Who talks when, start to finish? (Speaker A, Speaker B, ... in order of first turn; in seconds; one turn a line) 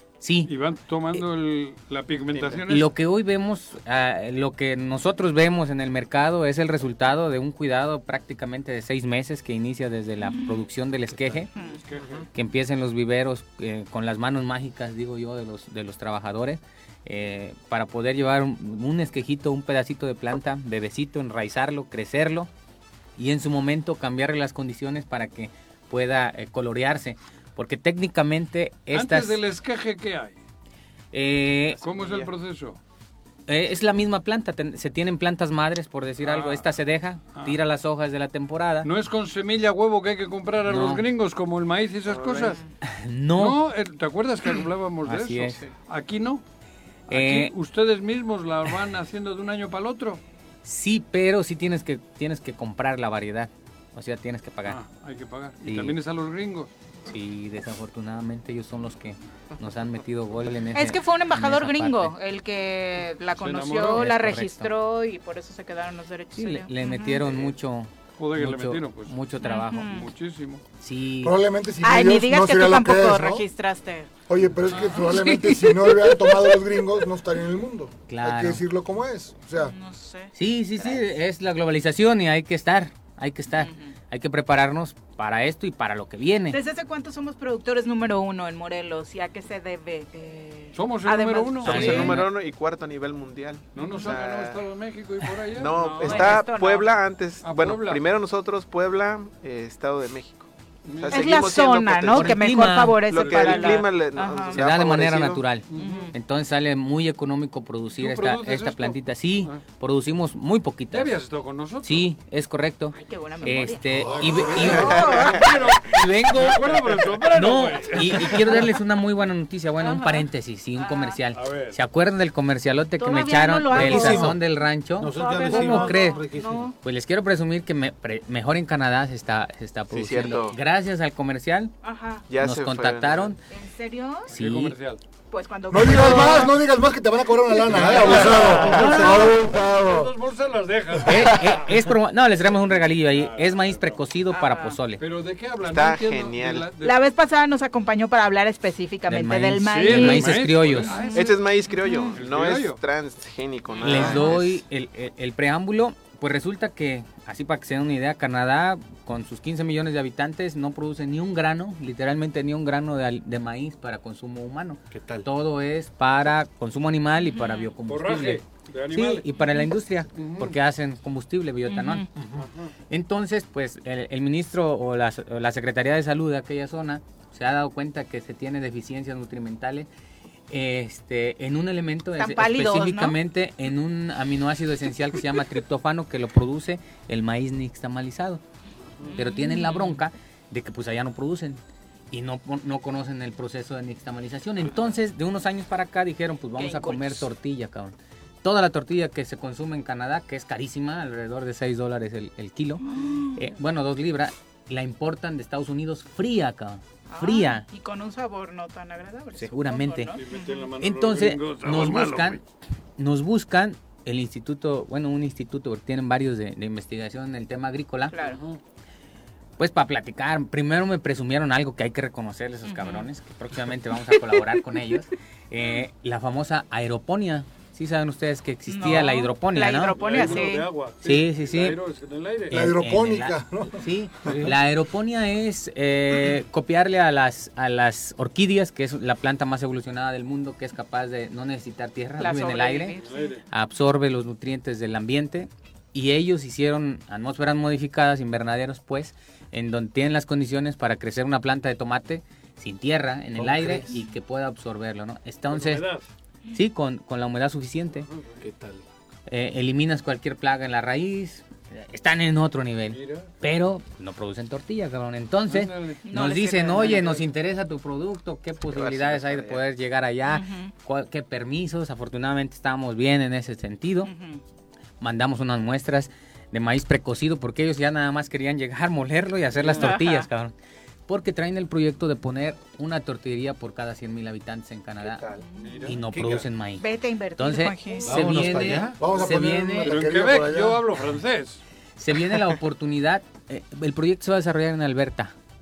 Speaker A: 0.2-0.5
Speaker B: 0.5-2.9
Speaker C: 2.3-2.7
Speaker A: 2.7-11.5
Speaker D: 10.2-10.6
Speaker B: 11.6-12.3
Speaker A: 12.3-22.5
Speaker A: 23.2-29.4
Speaker B: 28.9-30.4
Speaker A: 31.1-31.8
Speaker C: 31.7-32.3
Speaker B: 31.8-32.8
Speaker A: 33.5-38.9
Speaker B: 36.2-36.7
Speaker B: 37.3-37.6
Speaker B: 38.8-42.6
Speaker A: 40.6-41.1
Speaker C: 42.1-42.6
Speaker A: 42.8-43.6
Speaker B: 43.4-46.4
Speaker A: 45.0-45.6
Speaker A: 47.1-47.5
Speaker B: 47.1-50.2
Speaker A: 50.6-54.8
Speaker B: 54.7-56.7
Speaker A: 55.6-56.0
Speaker A: 57.1-62.1
Speaker D: 60.7-67.3
Speaker B: 63.3-64.0
Speaker A: 64.0-64.7
Speaker A: 66.3-69.9
Speaker B: 67.3-67.5
Speaker B: 68.2-69.2
Speaker D: 69.4-70.1
Speaker B: 69.7-70.6
Speaker A: 70.8-71.4
Speaker E: 71.2-73.5
Speaker D: 71.8-74.1
Speaker E: 74.3-79.8
Speaker D: 74.7-76.6
Speaker A: 78.1-78.6
Speaker D: 79.6-81.1
Speaker A: 80.3-86.6
Speaker D: 83.6-83.9
Speaker D: 86.5-92.1
Speaker B: 90.7-92.2
Speaker A: 91.6-92.3
Speaker C: 91.6-94.6
Speaker B: 93.7-96.4
Speaker D: 93.8-94.1
Speaker C: 95.5-102.5
Speaker D: 95.7-96.9
Speaker B: 97.4-98.0
Speaker B: 100.9-101.3
Speaker D: 101.1-104.6
Speaker A: 102.1-103.0
Speaker C: 103.0-105.5
Speaker B: 103.1-103.8
Speaker A: 104.5-111.2
Speaker B: 105.7-106.1
Speaker D: 105.8-106.1
Speaker B: 108.0-109.6
Speaker B: 110.9-112.1
Speaker A: 111.8-126.2
Speaker D: 112.9-113.8
Speaker B: 114.0-118.8
Speaker D: 114.6-115.5
Speaker C: 114.8-115.4
Speaker D: 119.8-121.2
Speaker B: 121.3-121.8
Speaker D: 123.0-124.3
Speaker F: 123.7-126.7
Speaker D: 125.2-126.7
Speaker A: 126.8-131.7
Speaker C: 129.9-130.6
Speaker D: 131.8-132.2
Speaker C: 132.3-133.3
Speaker A: 132.4-133.4
Speaker D: 133.5-134.3
Speaker A: 134.3-134.8
Speaker B: 134.3-135.0
Speaker D: 135.3-136.6
Speaker E: 135.7-140.0
Speaker B: 137.8-141.8
Speaker D: 138.1-139.3
Speaker A: 141.0-145.0
Speaker B: 142.7-144.0
Speaker D: 144.3-144.8
Speaker B: 145.0-147.0
Speaker C: 145.6-146.7
Speaker D: 146.8-152.2
Speaker A: 149.1-151.0
Speaker B: 149.7-151.4
Speaker C: 151.1-154.6
Speaker B: 152.1-152.8
Speaker D: 153.7-154.4
Speaker A: 153.8-172.1
Speaker F: 164.9-165.3
Speaker D: 167.2-167.7
Speaker B: 167.8-170.6
Speaker D: 171.7-172.1
Speaker F: 172.2-172.5
Speaker B: 172.4-172.7
Speaker A: 172.9-179.9
Speaker A: 180.5-188.4
Speaker D: 182.2-183.2
Speaker D: 189.1-190.0
Speaker A: 189.2-191.6
Speaker A: 192.1-207.7
Speaker D: 196.6-197.3
Speaker D: 202.8-203.5
Speaker D: 207.1-210.6
Speaker A: 209.4-210.2
Speaker B: 210.1-212.4
Speaker A: 210.8-212.4
Speaker A: 213.0-218.1
Speaker D: 218.1-218.4
Speaker B: 218.2-218.6
Speaker A: 219.6-230.3
Speaker D: 222.7-223.1
Speaker D: 228.7-230.7
Speaker B: 229.9-232.8
Speaker A: 231.0-231.8
Speaker A: 232.5-242.9
Speaker E: 232.5-233.9
Speaker D: 242.2-243.3
Speaker B: 243.0-243.4
Speaker A: 243.5-255.9
Speaker F: 253.3-254.0
Speaker B: 255.5-256.1
Speaker A: 256.5-258.1
Speaker B: 258.0-258.3
Speaker F: 258.4-258.8
Speaker A: 259.3-274.1
Speaker B: 262.9-263.3
Speaker B: 265.5-266.1
Speaker D: 266.1-267.1
Speaker B: 266.6-267.3
Speaker D: 270.3-270.7
Speaker D: 274.1-274.4
Speaker A: 275.0-280.5
Speaker B: 279.6-280.0
Speaker D: 279.8-280.3
Speaker A: 281.1-285.3
Speaker F: 285.0-286.5
Speaker D: 285.4-285.9
Speaker B: 285.6-286.0
Speaker A: 285.9-286.9
Speaker D: 286.8-288.1
Speaker A: 287.4-290.0
Speaker F: 288.0-289.0
Speaker E: 289.0-290.8
Speaker B: 289.8-291.6
Speaker A: 292.0-295.3